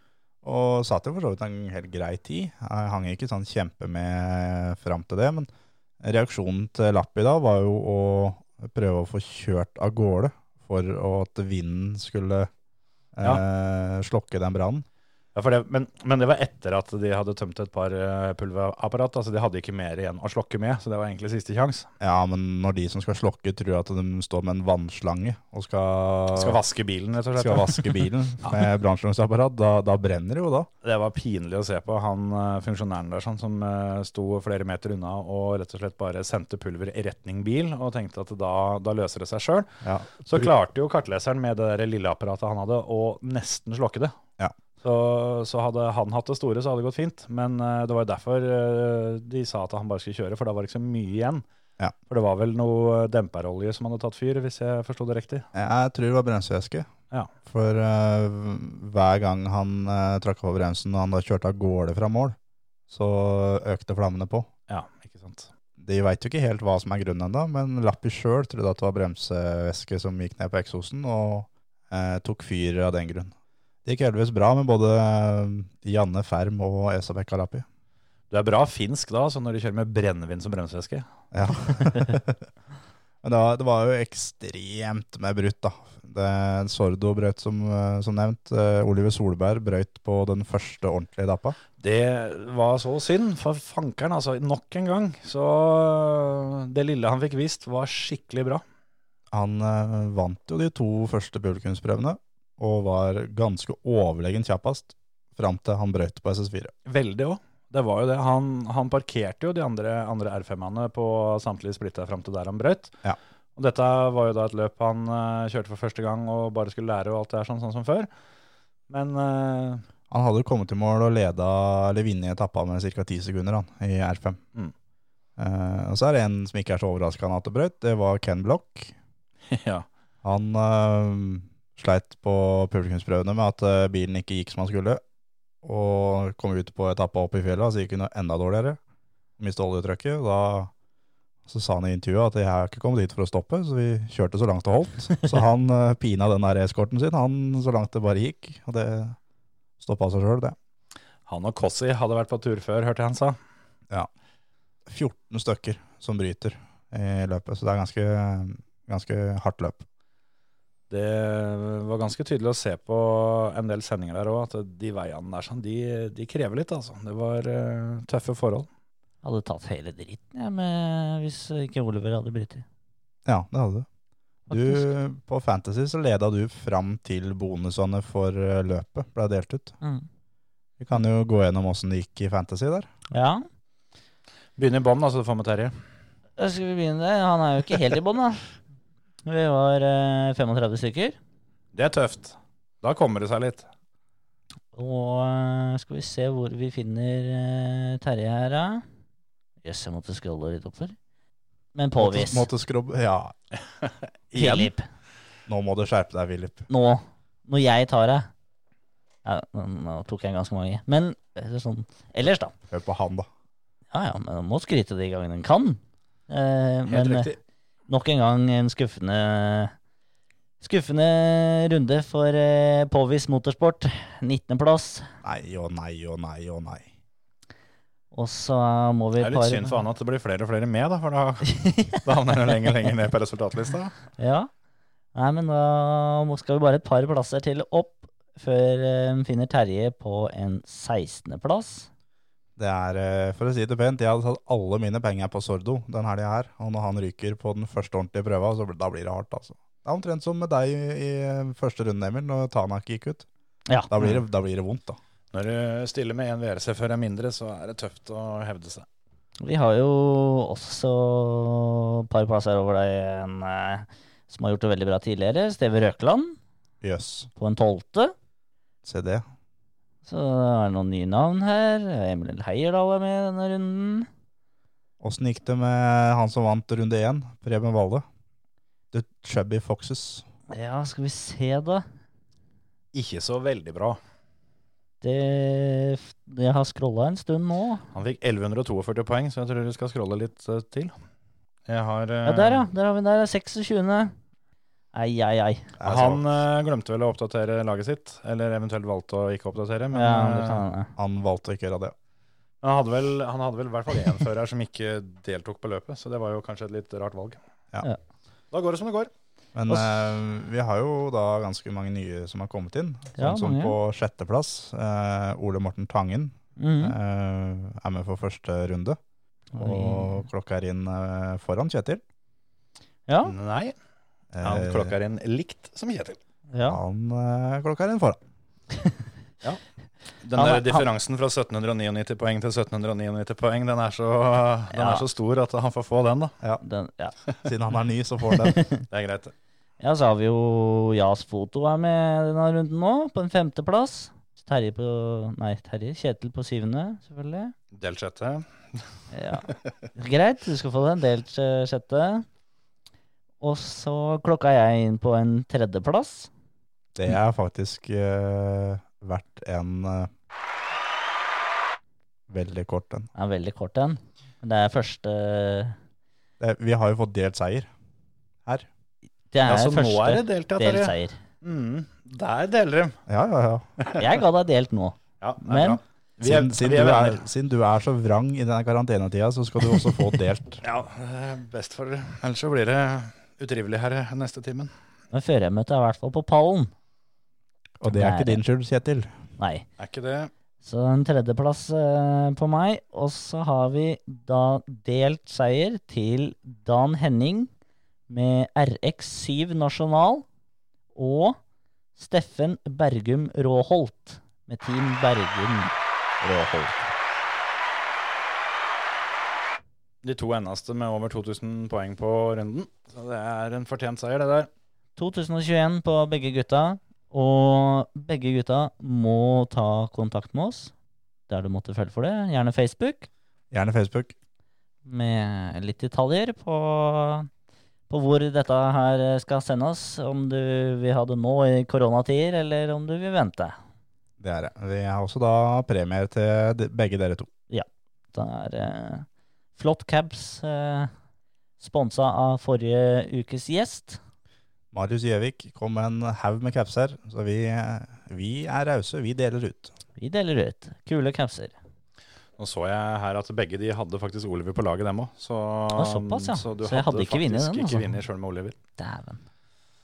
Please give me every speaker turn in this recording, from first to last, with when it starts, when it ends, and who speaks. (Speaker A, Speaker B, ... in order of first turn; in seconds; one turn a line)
Speaker A: 0.4-5.5
Speaker A: 6.0-12.5
Speaker A: 13.2-14.8
Speaker B: 15.3-21.9
Speaker A: 22.0-26.6
Speaker B: 26.4-28.6
Speaker A: 27.4-30.7
Speaker B: 30.8-39.7
Speaker A: 39.8-40.5
Speaker B: 40.2-44.1
Speaker B: 44.8-51.4
Speaker B: 52.1-55.5
Speaker A: 55.5-56.9
Speaker A: 57.5-62.4
Speaker A: 62.9-64.5
Speaker B: 64.7-65.5
Speaker A: 65.8-73.3
Speaker A: 73.8-77.7
Speaker B: 78.3-81.0
Speaker A: 81.3-82.4
Speaker A: 83.2-91.6
Speaker B: 91.8-98.6
Speaker A: 99.3-106.7
Speaker B: 106.9-112.9
Speaker B: 113.6-118.1
Speaker B: 118.9-119.8
Speaker A: 120.1-124.4
Speaker A: 125.4-128.9
Speaker B: 129.5-129.9
Speaker A: 130.2-135.0
Speaker A: 135.6-138.8
Speaker A: 139.4-140.7
Speaker A: 141.5-149.2
Speaker A: 149.8-150.6
Speaker B: 151.3-153.4
Speaker A: 154.9-159.8
Speaker B: 160.9-168.7
Speaker C: 169.2-172.7
Speaker A: 173.3-173.9
Speaker C: 174.5-174.9
Speaker A: 174.5-179.8
Speaker A: 180.8-182.9
Speaker C: 183.1-183.4
Speaker B: 184.6-185.8
Speaker C: 186.4-188.4
Speaker C: 189.2-191.2
Speaker B: 191.7-193.7
Speaker C: 194.7-198.8
Speaker C: 199.6-200.9
Speaker C: 201.8-202.5
Speaker A: 202.0-203.3
Speaker B: 203.8-204.7
Speaker C: 204.3-204.9
Speaker A: 205.5-206.7
Speaker C: 206.7-208.3
Speaker C: 209.2-212.5
Speaker A: 212.7-213.3
Speaker C: 213.9-217.3
Speaker B: 216.9-217.3
Speaker C: 217.9-219.7
Speaker C: 220.6-225.1
Speaker A: 225.2-226.9
Speaker C: 228.1-229.8
Speaker B: 229.2-233.9
Speaker C: 231.5-232.0
Speaker C: 234.2-234.5
Speaker C: 235.1-241.9
Speaker A: 242.6-253.3
Speaker A: 253.9-255.0
Speaker B: 255.3-258.9
Speaker C: 259.4-266.4
Speaker A: 266.8-267.3
Speaker C: 267.4-268.1
Speaker A: 268.9-269.2
Speaker C: 270.1-274.1
Speaker A: 275.0-278.1
Speaker A: 278.9-280.2
Speaker C: 280.5-281.9
Speaker B: 282.9-284.0
Speaker C: 285.0-287.9
Speaker B: 287.9-290.9
Speaker B: 291.7-292.7
Speaker C: 292.2-294.1
Speaker C: 294.9-295.7
Speaker A: 295.8-296.2
Speaker B: 295.8-300.6
Speaker C: 299.9-300.9
Speaker A: 301.0-301.9
Speaker B: 302.6-307.4
Speaker B: 308.5-309.1
Speaker A: 309.6-319.0
Speaker C: 313.2-313.8
Speaker C: 316.6-316.9
Speaker C: 319.6-320.2
Speaker A: 319.6-322.0
Speaker C: 323.1-323.3
Speaker B: 323.2-323.8
Speaker A: 324.3-324.9
Speaker B: 324.4-326.2
Speaker C: 326.5-326.8
Speaker A: 326.7-328.2
Speaker B: 330.2-336.4
Speaker C: 330.4-330.9
Speaker C: 334.7-335.1
Speaker C: 336.6-337.1
Speaker A: 337.4-338.6
Speaker C: 338.5-338.8
Speaker B: 338.9-339.3
Speaker C: 339.8-347.5
Speaker B: 347.7-348.8
Speaker C: 349.1-352.3
Speaker C: 353.4-356.3
Speaker A: 356.9-360.1
Speaker A: 362.3-363.1
Speaker C: 363.1-365.8
Speaker A: 366.4-367.7
Speaker C: 369.3-371.2
Speaker B: 369.4-373.0
Speaker A: 373.1-373.7
Speaker B: 373.8-374.1
Speaker C: 374.0-375.8
Speaker B: 375.2-377.2
Speaker A: 376.2-380.6
Speaker B: 380.6-384.7
Speaker C: 385.1-386.7
Speaker A: 387.8-389.1
Speaker C: 387.9-388.4
Speaker C: 389.4-389.6
Speaker B: 389.8-390.3
Speaker C: 390.6-397.5
Speaker C: 398.1-400.2
Speaker C: 400.9-401.4
Speaker C: 402.0-405.7
Speaker C: 406.4-406.9
Speaker B: 410.0-414.5
Speaker C: 415.0-420.7
Speaker C: 421.3-423.1
Speaker A: 423.5-424.1
Speaker C: 424.9-427.3
Speaker C: 427.9-433.6
Speaker A: 434.2-437.3
Speaker C: 437.5-440.9
Speaker C: 441.6-444.0
Speaker A: 444.7-449.8
Speaker C: 450.0-451.5
Speaker B: 452.4-458.6
Speaker C: 455.7-457.9
Speaker C: 458.8-459.2